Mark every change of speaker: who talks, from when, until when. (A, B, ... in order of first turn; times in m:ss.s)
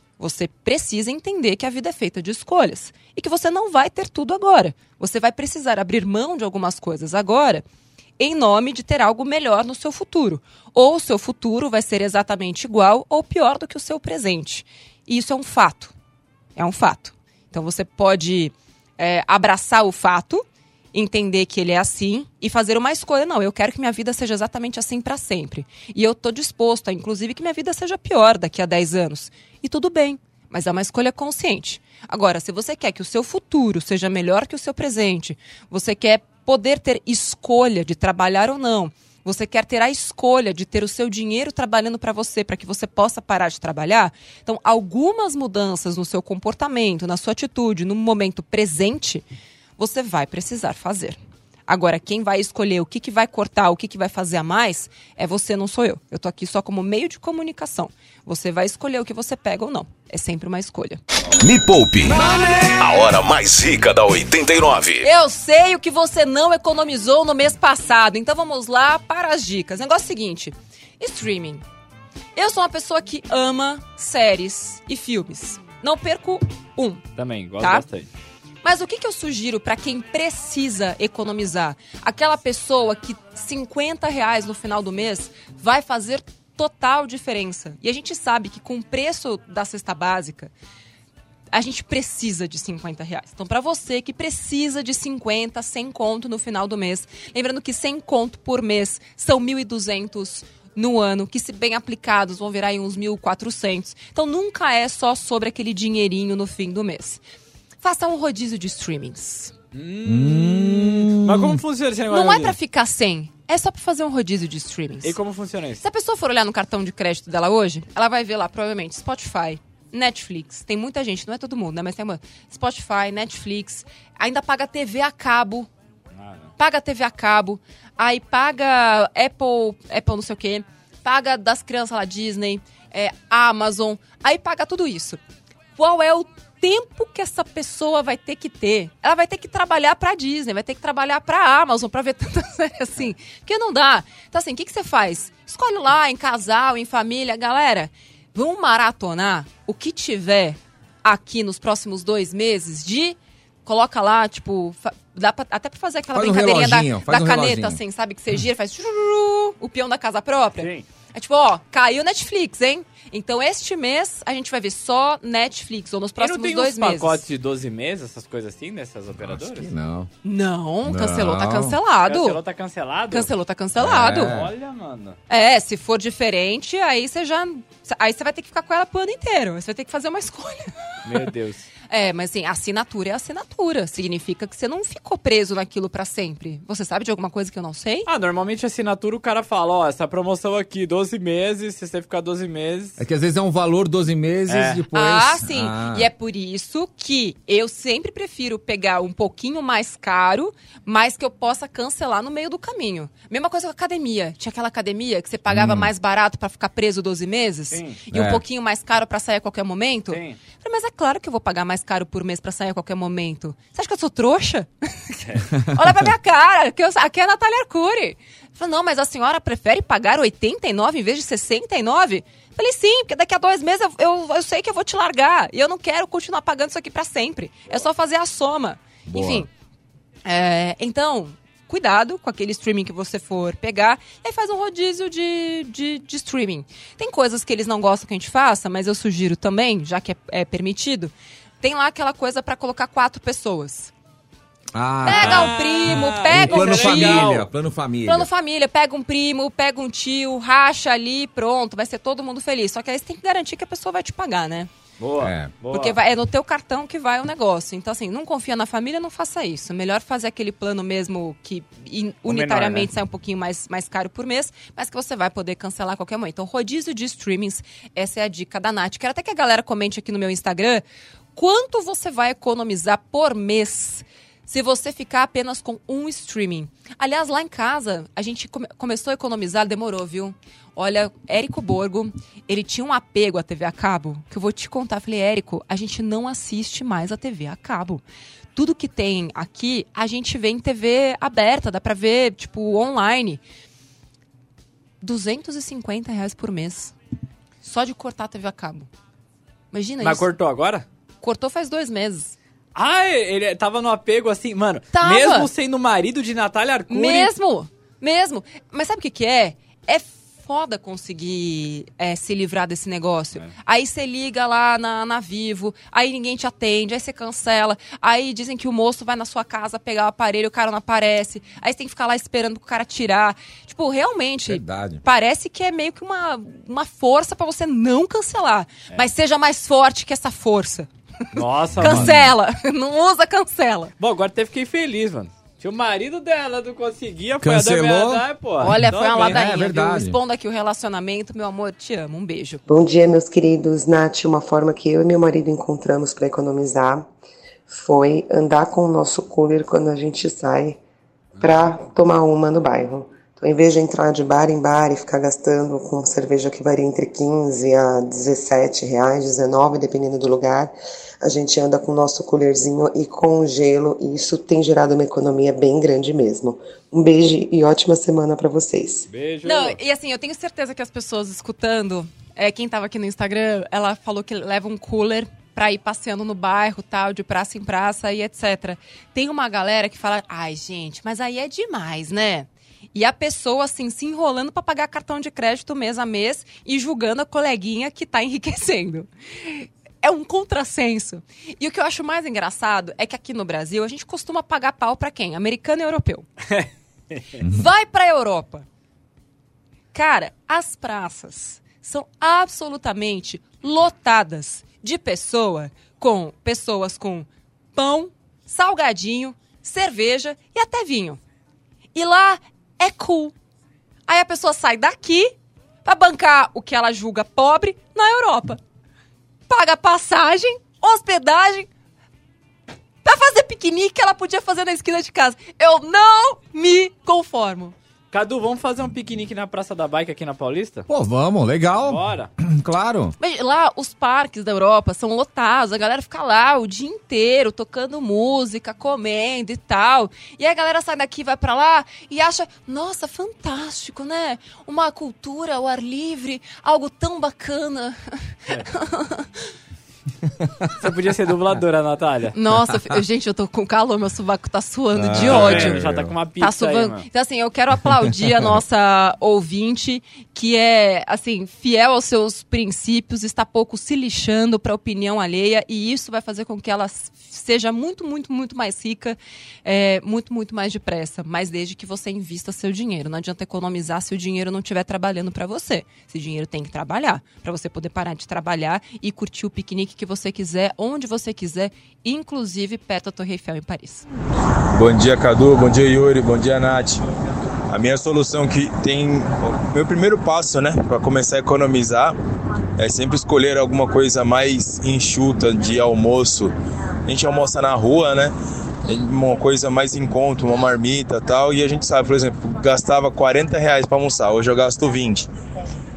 0:00.2-0:07.6 A
0:08.2-0:15.9 A
0:16.6-0:49.2 A
0:49.8-1:01.0 A
1:01.4-1:05.1 B
1:02.1-1:02.6 C
1:05.0-1:11.6 A
1:12.4-1:17.0 A
1:17.2-1:18.1 D
1:18.6-1:30.5 A
1:31.5-1:47.2 A
1:47.8-1:49.5 A
1:49.7-1:52.6 D
1:50.0-1:51.6 C
1:52.1-1:55.2 A
1:55.0-1:55.8 D
1:55.8-2:05.7 A
2:06.1-2:06.5 D
2:06.6-2:15.2 A
2:15.8-2:47.2 A
2:36.1-2:37.8 C
2:40.6-2:40.8 D
2:46.2-2:49.7 D
2:49.2-2:50.1 C
2:50.2-2:52.4 A
2:50.8-2:51.8 C
2:52.1-2:53.3 D
2:53.1-2:54.3 A
2:53.8-2:54.5 C
2:54.1-2:55.2 D
2:55.3-3:00.7 A
3:01.0-3:01.6 D
3:01.9-3:08.1 A
3:08.0-3:13.0 D
3:13.0-3:16.1 C
3:14.5-3:14.8 D
3:14.9-3:35.2 A
3:25.5-3:25.9 C
3:27.7-3:28.0 D
3:28.1-3:28.4 C
3:30.1-3:30.4 D
3:35.7-3:49.5 A
3:49.0-3:49.5 C
3:50.2-4:03.9 A
4:04.7-4:08.3 C
4:05.0-4:07.4 A
4:05.1-4:07.4 D
4:08.0-4:14.7 A
4:15.0-4:16.0 D
4:15.2-4:15.5 C
4:15.7-4:30.8 A
4:22.2-4:22.9 D
4:31.3-4:48.0 A
4:48.5-4:53.4 A
4:55.0-4:56.9 A
4:57.6-4:58.9 A
4:59.7-5:00.3 A
5:00.0-5:00.8 D
5:01.2-5:02.4 A
5:02.7-5:07.3 D
5:04.9-5:05.5 A
5:06.9-5:30.9 A
5:24.5-5:25.0 C
5:31.3-5:32.2 D
5:31.7-5:32.3 C
5:31.8-5:33.9 A
5:34.0-5:39.4 D
5:37.4-5:40.2 C
5:38.6-5:42.6 A
5:42.7-5:47.1 E
5:47.7-5:50.8 E
5:51.4-6:09.0 E
6:09.1-6:09.8 D
6:09.4-6:36.3 A
6:36.5-6:37.4 D
6:37.4-6:37.6 C
6:37.4-6:38.6 A
6:39.9-6:51.2 A
6:51.9-6:53.3 A
6:54.1-6:55.3 A
6:55.8-6:58.6 A
6:59.5-7:01.7 A
7:03.0-7:07.7 A
7:08.1-7:10.9 D
7:10.9-7:13.1 C
7:11.8-7:12.3 D
7:13.2-7:29.5 A
7:30.4-7:30.7 C
7:30.8-7:32.3 D
7:32.3-7:35.8 A
7:34.9-7:36.1 C
7:35.1-7:37.0 D
7:36.4-8:04.0 A
8:04.8-8:07.0 F
8:07.7-8:12.1 F
8:12.8-8:16.5 F
8:17.0-8:18.3 F
8:18.9-8:25.3 F